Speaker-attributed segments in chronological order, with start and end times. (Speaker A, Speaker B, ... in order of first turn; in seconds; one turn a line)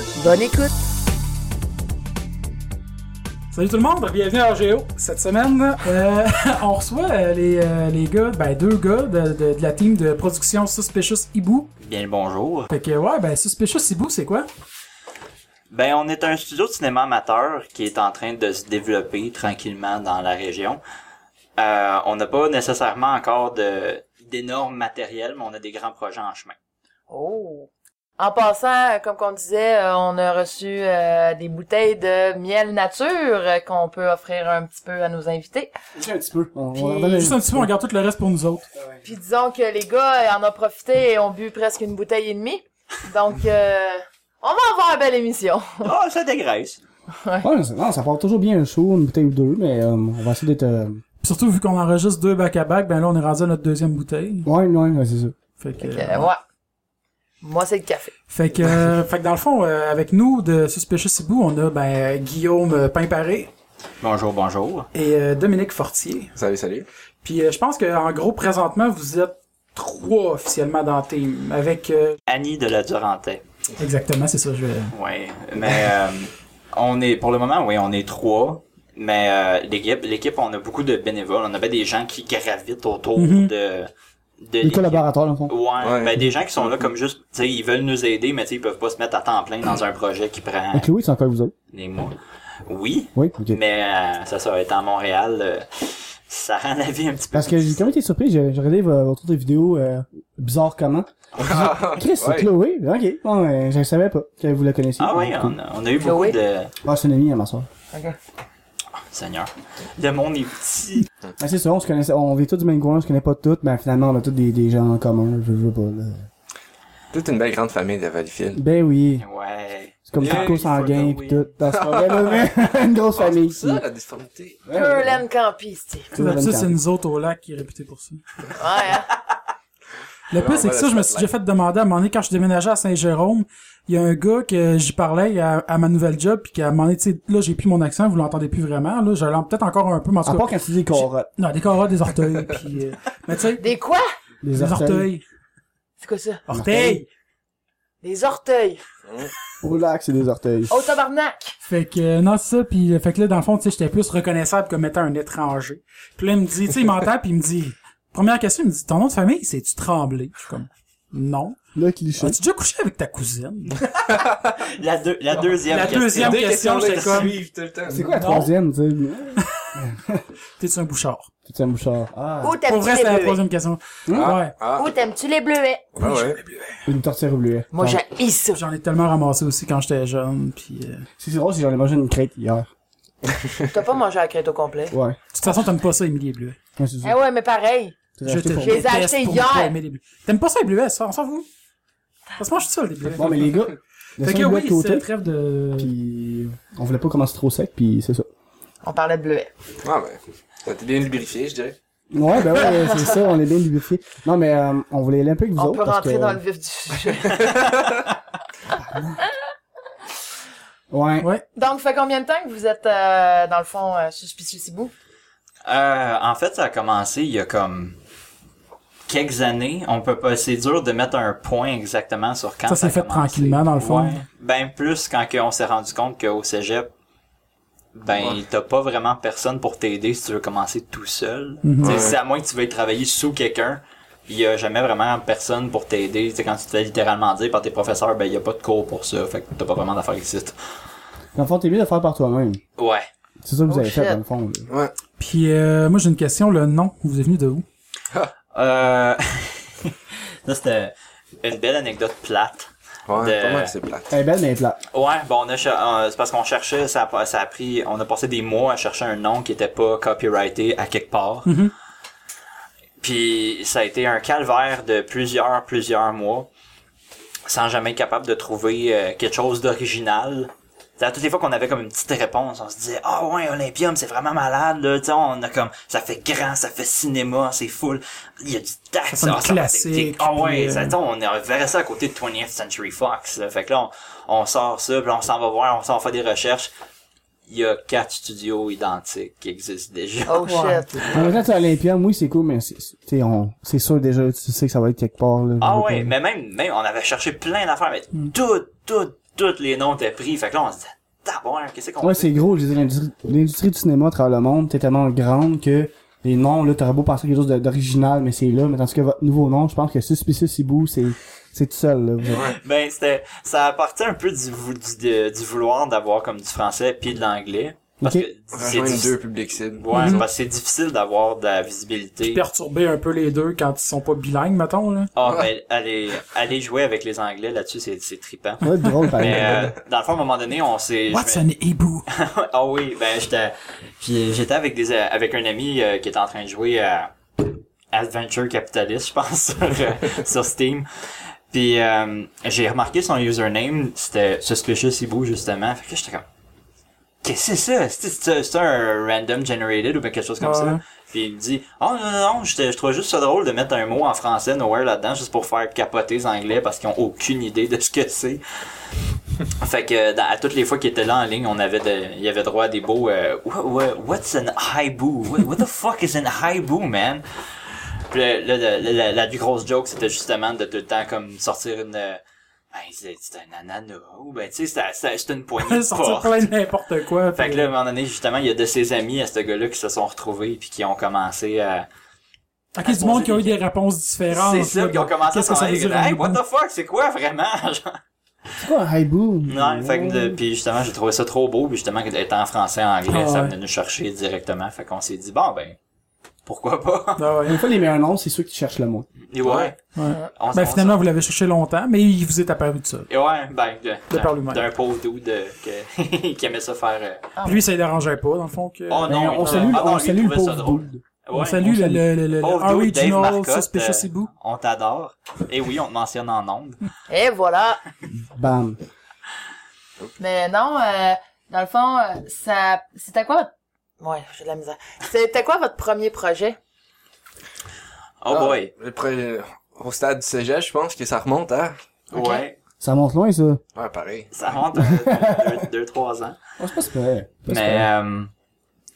Speaker A: 0.2-0.8
Speaker B: 3.5-11.7
Speaker C: 11.8-12.7
Speaker B: 12.7-14.5
Speaker C: 15.7-20.8
Speaker C: 21.6-26.6
Speaker A: 27.1-35.7
Speaker D: 36.0-37.7
Speaker A: 36.8-37.2
Speaker B: 37.0-38.7
Speaker A: 39.0-45.9
Speaker C: 45.8-46.8
Speaker A: 47.1-47.5
Speaker D: 47.4-51.0
Speaker B: 51.2-54.5
Speaker D: 54.5-55.4
Speaker B: 55.6-56.3
Speaker A: 55.8-56.4
Speaker A: 57.4-58.1
Speaker B: 58.3-63.5
Speaker C: 64.0-64.9
Speaker B: 64.9-66.3
Speaker E: 66.4-66.9
Speaker B: 67.2-72.2
Speaker C: 72.3-73.4
Speaker B: 73.8-74.9
Speaker C: 74.9-83.9
Speaker B: 83.2-83.5
Speaker C: 84.4-90.9
Speaker D: 84.6-85.5
Speaker E: 85.8-86.8
Speaker D: 90.7-91.5
Speaker C: 91.7-92.2
Speaker C: 92.7-97.8
Speaker D: 93.2-93.6
Speaker D: 97.3-105.6
Speaker E: 101.4-102.5
Speaker C: 105.0-106.7
Speaker A: 106.0-106.4
Speaker D: 106.8-107.7
Speaker A: 107.9-108.2
Speaker C: 109.0-111.1
Speaker D: 111.4-116.3
Speaker E: 117.1-118.6
Speaker D: 118.5-119.2
Speaker C: 119.2-121.5
Speaker D: 120.1-123.8
Speaker E: 120.2-120.6
Speaker E: 121.7-122.5
Speaker E: 123.2-124.6
Speaker D: 124.7-125.2
Speaker A: 124.7-126.1
Speaker D: 126.1-126.8
Speaker B: 126.2-128.2
Speaker A: 128.6-129.1
Speaker B: 130.3-143.6
Speaker E: 130.3-131.3
Speaker D: 140.2-141.3
Speaker A: 143.6-144.1
Speaker D: 144.4-145.1
Speaker B: 144.6-145.2
Speaker A: 146.0-146.4
Speaker B: 146.5-147.1
Speaker D: 146.5-147.0
Speaker A: 148.0-148.8
Speaker D: 149.6-150.7
Speaker A: 150.7-151.6
Speaker B: 151.7-161.6
Speaker D: 161.8-162.4
Speaker B: 162.2-163.8
Speaker C: 163.7-167.3
Speaker E: 165.3-168.1
Speaker B: 165.7-167.4
Speaker D: 167.9-170.2
Speaker B: 168.2-168.5
Speaker B: 169.4-169.7
Speaker B: 170.6-171.3
Speaker D: 171.4-172.6
Speaker A: 172.4-173.4
Speaker B: 172.7-174.5
Speaker D: 174.1-174.4
Speaker E: 174.2-174.9
Speaker A: 174.7-176.1
Speaker E: 176.0-176.5
Speaker B: 176.0-176.4
Speaker D: 176.9-178.0
Speaker A: 177.7-178.6
Speaker B: 178.5-181.1
Speaker D: 181.2-182.7
Speaker A: 183.7-184.9
Speaker D: 184.9-185.2
Speaker B: 185.3-186.6
Speaker D: 186.8-187.2
Speaker A: 187.0-188.0
Speaker D: 188.2-188.9
Speaker B: 188.3-191.5
Speaker A: 188.5-189.8
Speaker B: 192.4-193.6
Speaker D: 193.1-195.1
Speaker B: 194.2-195.9
Speaker D: 195.8-198.3
Speaker A: 198.8-199.5
Speaker E: 199.8-201.8
Speaker D: 202.1-206.4
Speaker A: 205.6-207.7
Speaker D: 208.9-209.2
Speaker D: 210.9-211.3
Speaker A: 211.6-214.9
Speaker C: 215.7-218.0
Speaker C: 219.1-226.9
Speaker B: 222.7-224.2
Speaker C: 227.9-240.6
Speaker E: 228.1-228.4
Speaker B: 231.6-232.0
Speaker E: 231.8-232.2
Speaker D: 241.3-242.6
Speaker C: 242.8-243.1
Speaker D: 243.4-244.7
Speaker A: 243.7-244.2
Speaker E: 244.7-244.9
Speaker B: 245.2-247.6
Speaker C: 248.5-253.7
Speaker E: 253.1-254.1
Speaker D: 254.1-254.8
Speaker C: 254.9-261.6
Speaker B: 261.4-261.7
Speaker C: 263.0-266.5
Speaker C: 267.5-286.7
Speaker B: 279.1-280.9
Speaker C: 287.5-291.2
Speaker A: 290.3-291.2
Speaker B: 290.5-291.2
Speaker D: 291.1-296.1
Speaker C: 295.6-302.3
Speaker D: 302.0-312.5
Speaker C: 312.3-319.2
Speaker D: 318.0-318.3
Speaker E: 318.5-320.3
Speaker C: 319.8-322.4
Speaker B: 319.9-320.2
Speaker B: 322.2-325.1
Speaker C: 325.1-331.4
Speaker D: 328.6-329.7
Speaker B: 331.1-332.1
Speaker C: 332.1-346.3
Speaker C: 347.2-358.4
Speaker B: 350.4-350.8
Speaker C: 359.6-367.2
Speaker C: 368.1-372.2
Speaker C: 372.7-376.5
Speaker B: 375.6-377.7
Speaker C: 377.4-381.9
Speaker B: 382.8-386.4
Speaker C: 382.8-383.6
Speaker C: 384.3-388.0
Speaker D: 388.6-390.4
Speaker C: 389.5-395.8
Speaker B: 393.1-393.5
Speaker C: 396.5-397.2
Speaker B: 397.2-397.6
Speaker D: 397.4-399.1
Speaker C: 399.3-399.8
Speaker E: 399.4-399.7
Speaker B: 399.9-403.1
Speaker C: 400.3-401.0
Speaker C: 403.1-407.3
Speaker B: 404.1-404.6
Speaker B: 407.4-409.8
Speaker C: 408.9-411.7
Speaker D: 409.1-411.0
Speaker B: 411.3-414.3
Speaker D: 411.6-412.0
Speaker C: 412.3-416.8
Speaker A: 417.1-417.8
Speaker D: 418.1-418.8
Speaker A: 420.2-426.6
Speaker C: 428.2-428.7
Speaker E: 428.3-431.8
Speaker C: 432.1-432.6
Speaker A: 432.1-432.4
Speaker D: 432.8-433.6
Speaker E: 433.8-434.6
Speaker C: 434.3-436.4
Speaker D: 434.8-435.7
Speaker D: 436.6-437.9
Speaker C: 437.5-438.3